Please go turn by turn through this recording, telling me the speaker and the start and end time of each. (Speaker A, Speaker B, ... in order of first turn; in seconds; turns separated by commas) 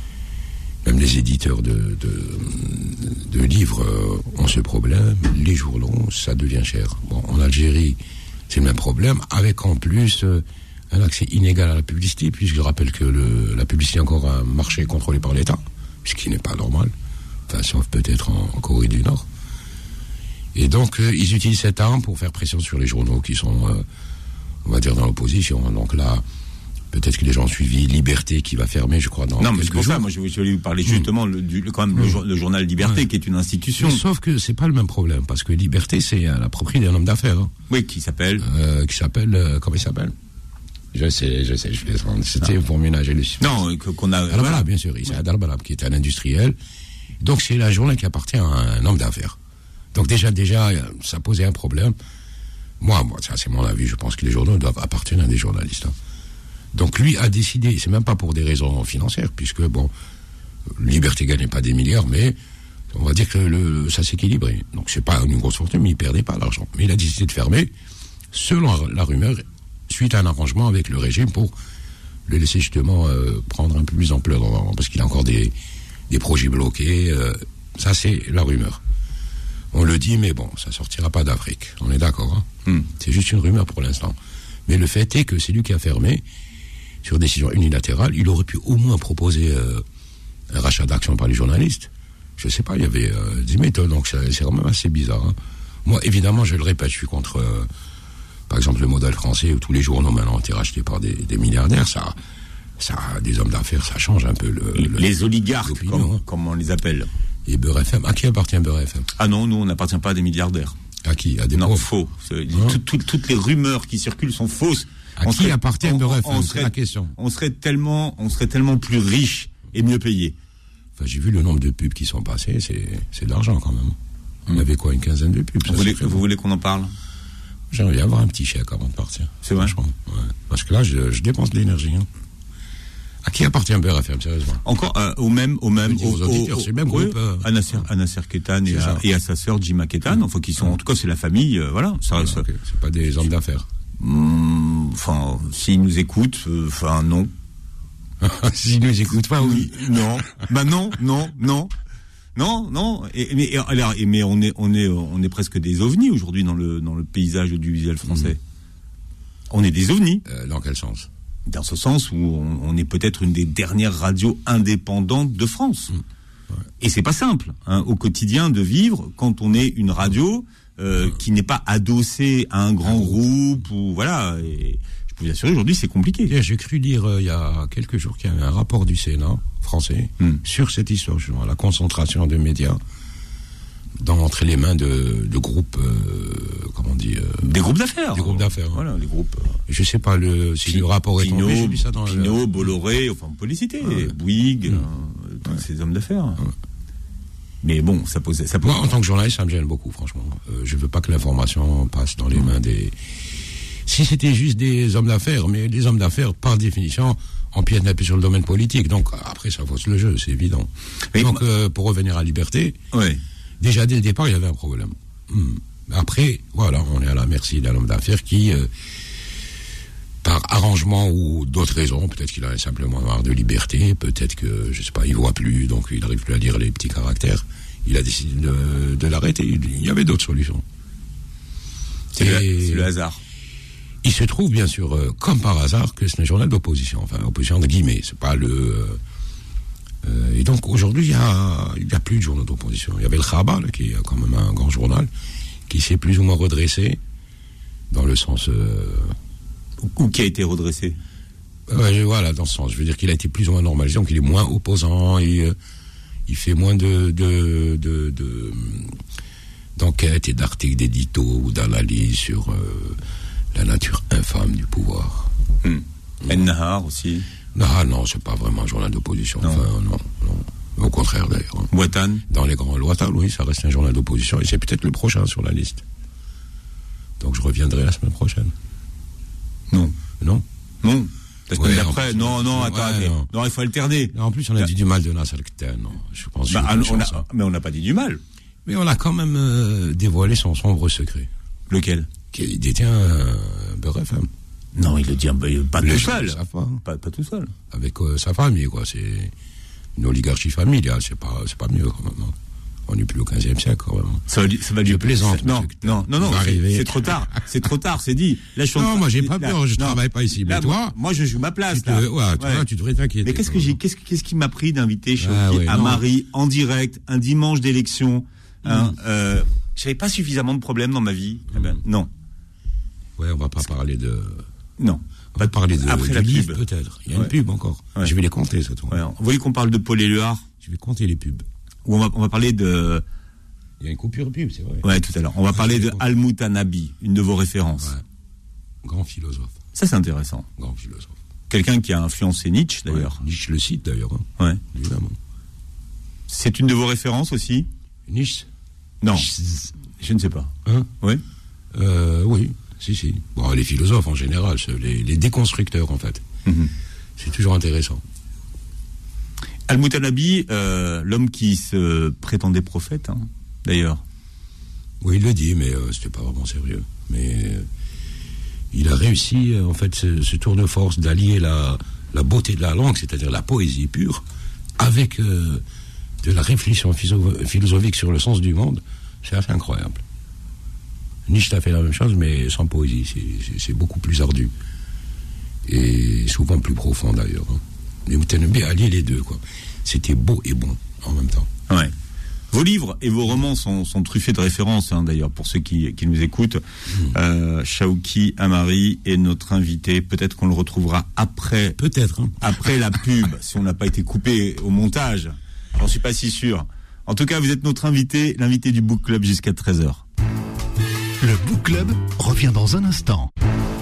Speaker A: 0.8-8.0, Speaker A: 8.5-16.9, Speaker A: 17.5-19.2, Speaker A: 20.5-23.9, Speaker A: 24.6-26.2, Speaker A: 26.9-30.1, Speaker B: 29.4-34.0, Speaker A: 33.8-37.5, Speaker B: 37.7-38.5, Speaker A: 38.4-40.1, Speaker A: 40.9-43.6, Speaker B: 43.4-44.6, Speaker A: 44.3-46.5, Speaker A: 47.2-49.4, Speaker A: 49.9-51.9, Speaker A: 52.8-55.9, Speaker A: 56.7-59.9, Speaker A: 60.8-62.4, Speaker A: 62.9-67.7, Speaker A: 68.3-71.5, Speaker A: 72.3-75.5, Speaker A: 76.1-78.8, Speaker A: 79.7-86.2, Speaker A: 87.0-89.8, Speaker A: 90.5-97.7, Speaker A: 98.5-102.1, Speaker A: 102.8-105.1, Speaker B: 104.7-107.1, Speaker A: 105.6-106.2, Speaker A: 107.5-109.1, Speaker B: 109.2-110.8, Speaker A: 111.0-111.9, Speaker B: 111.5-120.3, Speaker A: 112.5-112.8, Speaker A: 115.2-117.1, Speaker A: 121.0-124.0, Speaker A: 124.5-126.2, Speaker B: 125.6-126.9, Speaker A: 127.7-132.1, Speaker B: 129.4-129.8, Speaker A: 133.2-134.6, Speaker B: 134.6-142.5, Speaker A: 135.8-137.9, Speaker A: 138.7-139.0, Speaker A: 142.2-143.7, Speaker B: 144.0-147.3, Speaker A: 148.2-150.1, Speaker B: 149.2-151.7, Speaker B: 152.3-158.4, Speaker B: 159.5-160.2, Speaker A: 160.2-161.1, Speaker B: 161.4-165.9, Speaker B: 166.8-176.3, Speaker A: 172.8-173.2, Speaker A: 176.3-182.8, Speaker A: 184.0-187.5, Speaker B: 187.4-189.6, Speaker A: 188.1-188.8, Speaker A: 189.7-192.4, Speaker B: 190.6-196.4, Speaker A: 193.8-194.1, Speaker B: 197.6-198.8, Speaker A: 198.6-203.0, Speaker A: 203.8-212.8, Speaker B: 211.1-211.4, Speaker B: 212.9-213.2, Speaker A: 213.6-218.7, Speaker A: 220.2-230.6, Speaker B: 232.1-233.2, Speaker A: 232.2-232.9, Speaker A: 234.0-239.0, Speaker A: 240.0-245.1, Speaker A: 245.7-247.0, Speaker A: 247.9-249.1, Speaker B: 249.8-250.9, Speaker A: 251.7-255.5, Speaker A: 256.3-259.0, Speaker A: 259.8-263.0, Speaker A: 263.5-265.3, Speaker B: 265.6-267.2, Speaker A: 267.5-271.7, Speaker B: 271.7-272.2, Speaker A: 272.3-275.8, Speaker A: 277.2-278.5, Speaker B: 279.7-280.0, Speaker A: 280.2-280.4, Speaker B: 280.8-284.6, Speaker A: 281.5-283.3, Speaker A: 284.1-287.2, Speaker B: 286.5-288.2, Speaker A: 288.6-291.3, Speaker B: 291.7-292.1, Speaker A: 292.3-294.3, Speaker B: 294.7-297.5, Speaker A: 295.8-296.8, Speaker A: 297.7-299.3, Speaker A: 299.9-302.4, Speaker A: 302.9-307.4, Speaker B: 304.3-312.6, Speaker A: 308.7-311.0, Speaker A: 311.7-313.8, Speaker B: 313.2-322.1, Speaker A: 315.2-316.0, Speaker A: 318.6-318.9, Speaker A: 323.2-324.4, Speaker B: 324.8-327.3, Speaker A: 325.3-329.0, Speaker B: 328.9-330.4, Speaker A: 330.6-331.4, Speaker B: 331.8-333.0, Speaker A: 333.8-334.9, Speaker B: 334.8-337.9, Speaker A: 335.5-336.1, Speaker A: 338.8-339.6, Speaker B: 339.7-340.5, Speaker A: 340.6-341.1, Speaker B: 341.5-343.2, Speaker A: 342.9-345.2, Speaker B: 346.3-347.7, Speaker A: 348.1-348.5, Speaker B: 349.0-349.4, Speaker A: 349.1-349.7, Speaker B: 350.0-351.2, Speaker A: 350.6-350.9, Speaker A: 351.7-356.2, Speaker B: 356.4-356.7, Speaker A: 357.2-358.0, Speaker B: 359.7-364.0, Speaker A: 365.0-367.7, Speaker A: 368.7-374.2, Speaker A: 374.8-375.6, Speaker A: 376.2-380.0, Speaker A: 381.3-384.5, Speaker A: 385.7-391.5, Speaker B: 392.5-401.8, Speaker A: 396.9-397.2, Speaker A: 401.8-402.5, Speaker B: 402.4-410.0, Speaker C: 411.2-413.3